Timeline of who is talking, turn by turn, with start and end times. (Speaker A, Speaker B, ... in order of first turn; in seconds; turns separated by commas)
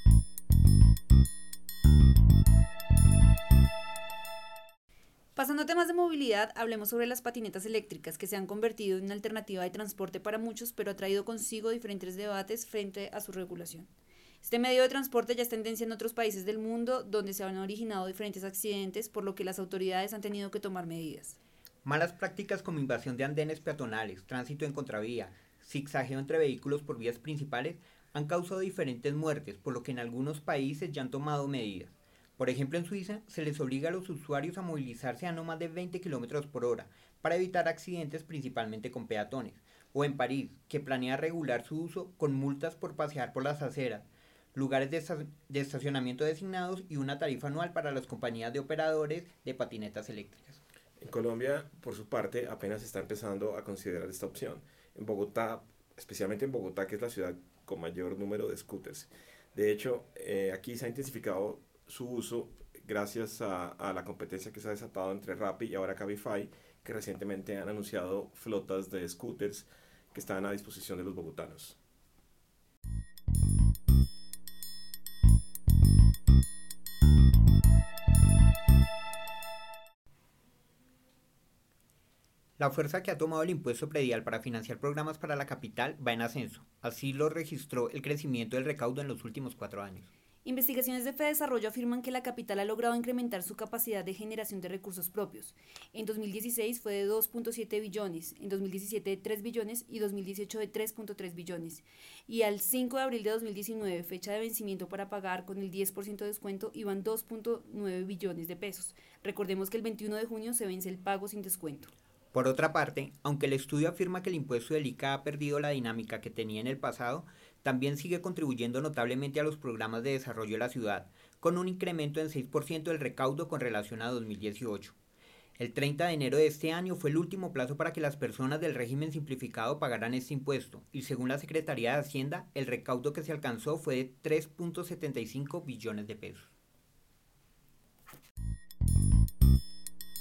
Speaker A: 5.3-13.9, Speaker A: 14.4-21.4, Speaker B: 21.8-50.6, Speaker C: 51.0-71.8, Speaker B: 82.6-90.1, Speaker A: 90.4-111.9, Speaker B: 112.3-124.9, Speaker B: 125.6-136.5